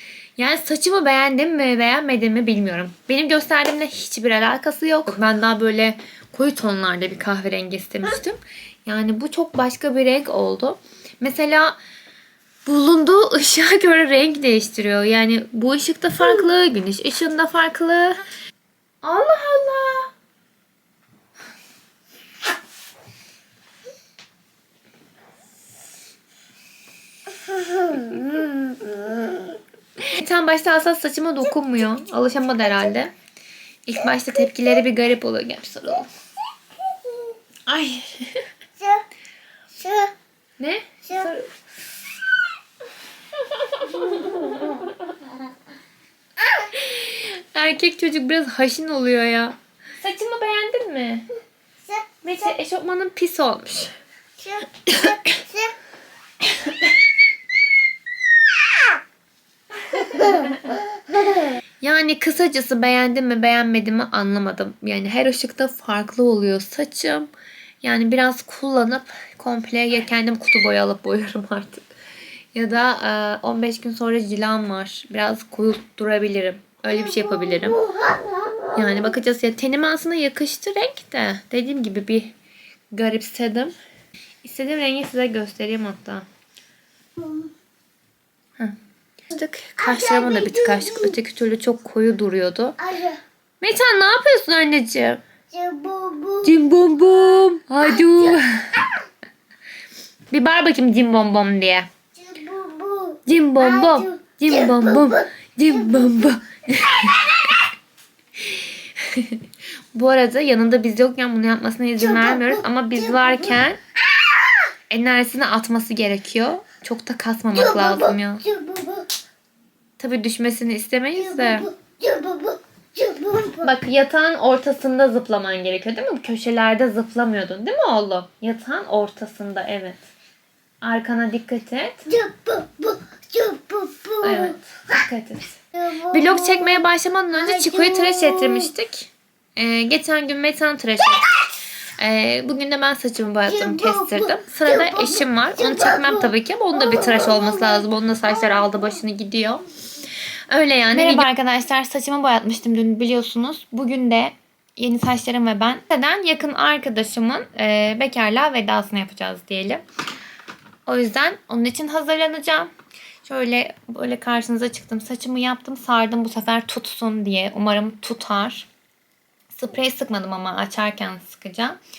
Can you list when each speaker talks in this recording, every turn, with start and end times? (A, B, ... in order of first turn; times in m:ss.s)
0:00.4-0:11.8 A
0:12.6-0:18.2 A
0:19.0-0:20.1 A
0:27.8-0:28.7 A
0:30.0-0:33.1 A
0:33.8-0:36.1 A
0:37.7-0:38.4 A
0:38.8-0:39.0 B
0:39.8-0:40.1 B
0:40.6-0:41.5 A
0:43.4-0:45.4 A
0:46.4-0:51.2 A
0:51.9-0:52.2 B
0:52.2-0:53.9 A
0:54.4-0:55.7 B
0:54.9-0:55.4 A
0:56.4-0:56.9 A
0:59.9-1:00.6 A
1:01.8-1:07.3 A
1:07.8-1:11.8 A
1:12.5-1:17.9 A
1:17.8-1:18.7 B
1:18.7-1:22.3 A
1:22.9-1:23.7 A
1:24.4-1:26.2 A
1:27.2-1:27.5 B
1:29.3-1:32.9 A
1:29.8-1:31.1 B
1:32.8-1:33.2 B
1:33.6-1:35.2 A
1:35.5-1:36.5 B
1:36.4-1:39.0 A
1:37.9-1:38.4 B
1:40.3-1:41.9 A
1:42.1-1:45.2 B
1:43.2-1:47.7 A
1:48.4-1:53.8 A
1:52.2-1:52.6 B
1:54.9-1:58.5 A
1:57.5-1:59.1 B
2:00.0-2:01.7 A
2:01.2-2:03.7 B
2:03.6-2:10.0 A
2:10.8-2:12.2 A
2:12.1-2:14.5 B
2:14.2-2:29.7 A
2:15.8-2:16.8 B
2:17.4-2:18.6 B
2:23.5-2:26.2 B
2:26.8-2:27.8 B
2:30.5-2:39.8 A
2:40.8-2:42.7 A
2:43.2-2:48.7 A
2:49.5-2:51.8 A